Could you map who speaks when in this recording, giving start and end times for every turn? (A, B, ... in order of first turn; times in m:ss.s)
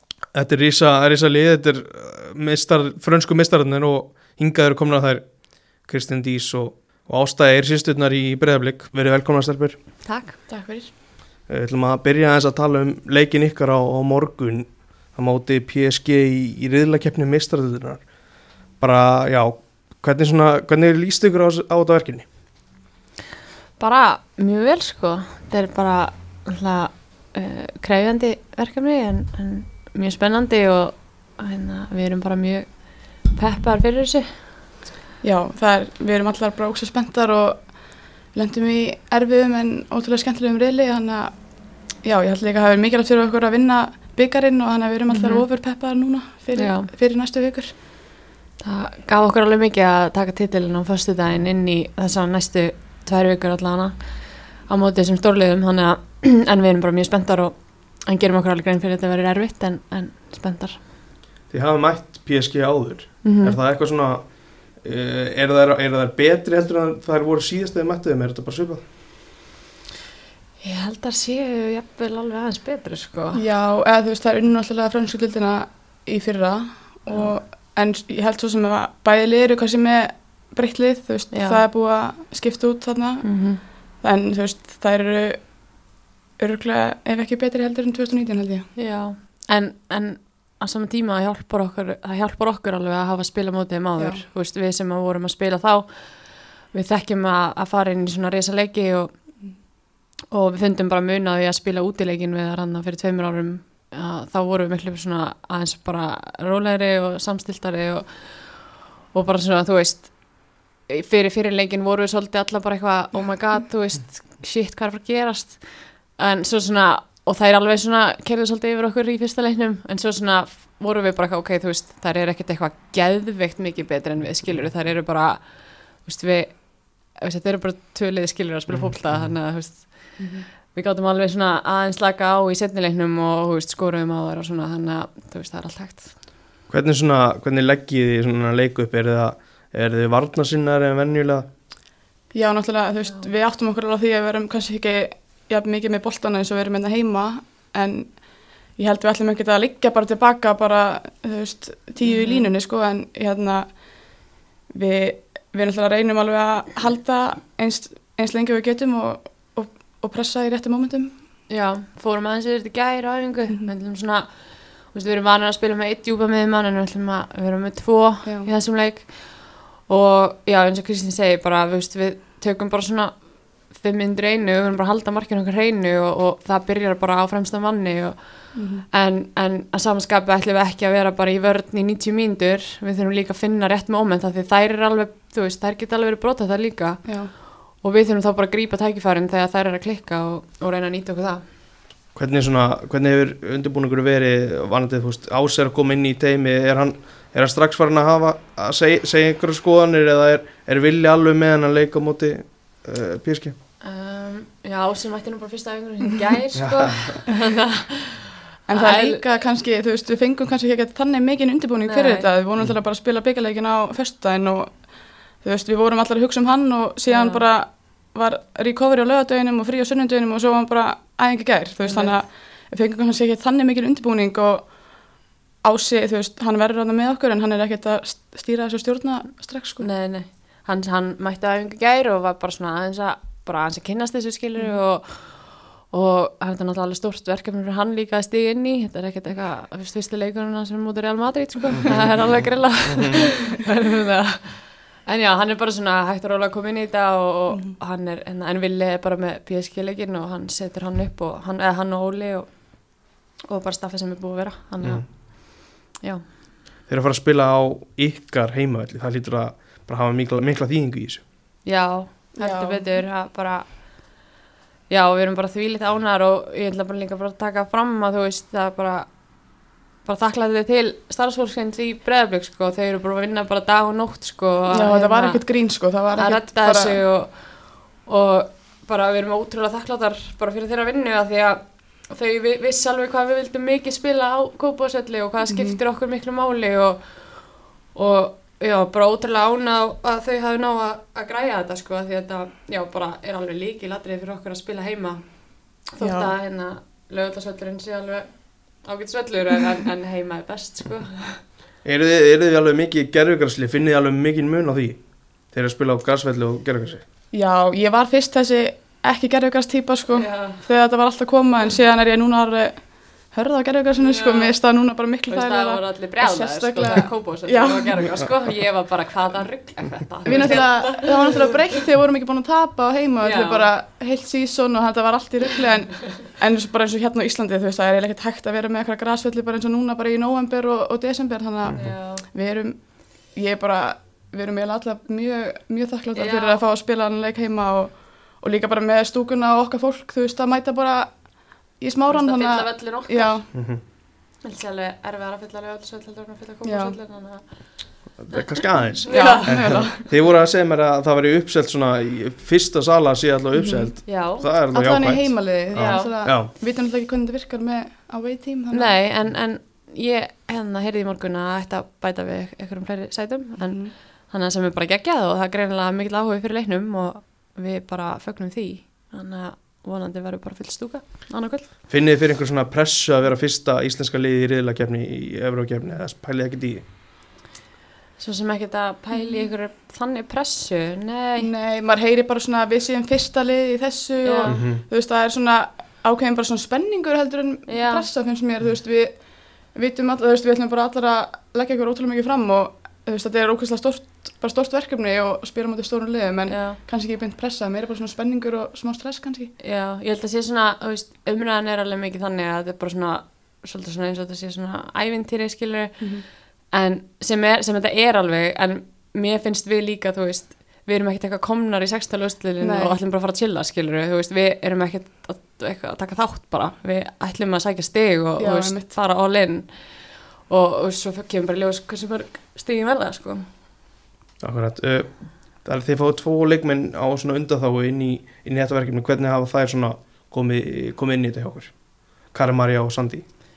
0:00.3-0:09.8 A
0:10.0-0:10.4 B
0:10.5-0:10.9 C
0:11.5-0:18.1 A
0:18.7-0:22.3 A
0:23.8-0:34.3 B
0:35.2-0:47.7 C
0:45.1-0:45.4 B
0:46.5-0:46.9 B
0:48.6-1:00.8 B
1:01.5-1:08.8 A
1:03.2-1:03.6 B
1:10.6-1:13.4 B
1:13.3-1:28.7 C
1:17.1-1:17.3 B
1:21.3-1:21.6 B
1:23.2-1:23.6 B
1:28.7-1:39.6 B
1:34.0-1:34.2 C
1:40.3-2:16.3 B
2:08.7-2:09.4 A
2:10.2-2:10.5 C
2:16.7-2:21.5 A
2:22.3-2:41.1 C
2:32.0-2:32.5 B
2:41.5-3:11.4 B
2:48.2-2:48.5 C
2:58.5-2:58.8 C
3:07.0-3:07.3 C
3:12.1-3:23.6 A
3:23.8-3:29.2 B
3:26.5-3:27.2 A
3:28.7-3:49.9 C
3:31.8-3:32.3 B
3:37.1-3:37.4 B
3:41.8-3:42.2 B
3:49.8-4:16.2 B
4:01.8-4:03.2 A
4:07.5-4:07.8 C
4:14.8-4:15.0 A
4:16.9-4:21.2 A
4:21.6-4:24.3 B
4:22.3-4:23.0 C
4:24.9-5:01.4 B
4:34.7-4:37.0 C
4:45.5-4:45.8 C
4:56.0-4:56.3 C
5:01.8-5:07.0 A
5:07.3-5:18.0 C
5:10.1-5:10.6 B
5:14.0-5:14.5 B
5:15.3-5:21.7 B
5:20.2-5:43.5 C
5:23.2-5:23.7 B
5:31.7-5:32.2 B
5:36.1-5:36.6 B
5:42.1-5:43.9 B
5:43.5-5:43.8 A
5:44.4-5:49.9 B
5:46.6-5:47.0 C
5:48.2-5:56.5 A
5:49.1-5:50.0 C
5:53.5-5:59.0 C
5:54.0-5:54.5 B
5:55.7-5:56.2 B
5:58.7-6:11.7 B
6:03.6-6:03.9 C
6:11.9-6:16.8 A
6:18.2-6:21.5 B
6:19.1-6:19.5 C
6:21.4-6:39.6 C
6:24.2-6:24.6 B
6:24.5-6:24.8 A
6:27.7-6:28.1 B
6:36.5-6:36.8 B
6:39.6-7:03.5 B
6:46.0-6:46.2 C
6:52.6-6:53.0 C
6:58.4-6:58.9 C
7:04.4-7:13.2 A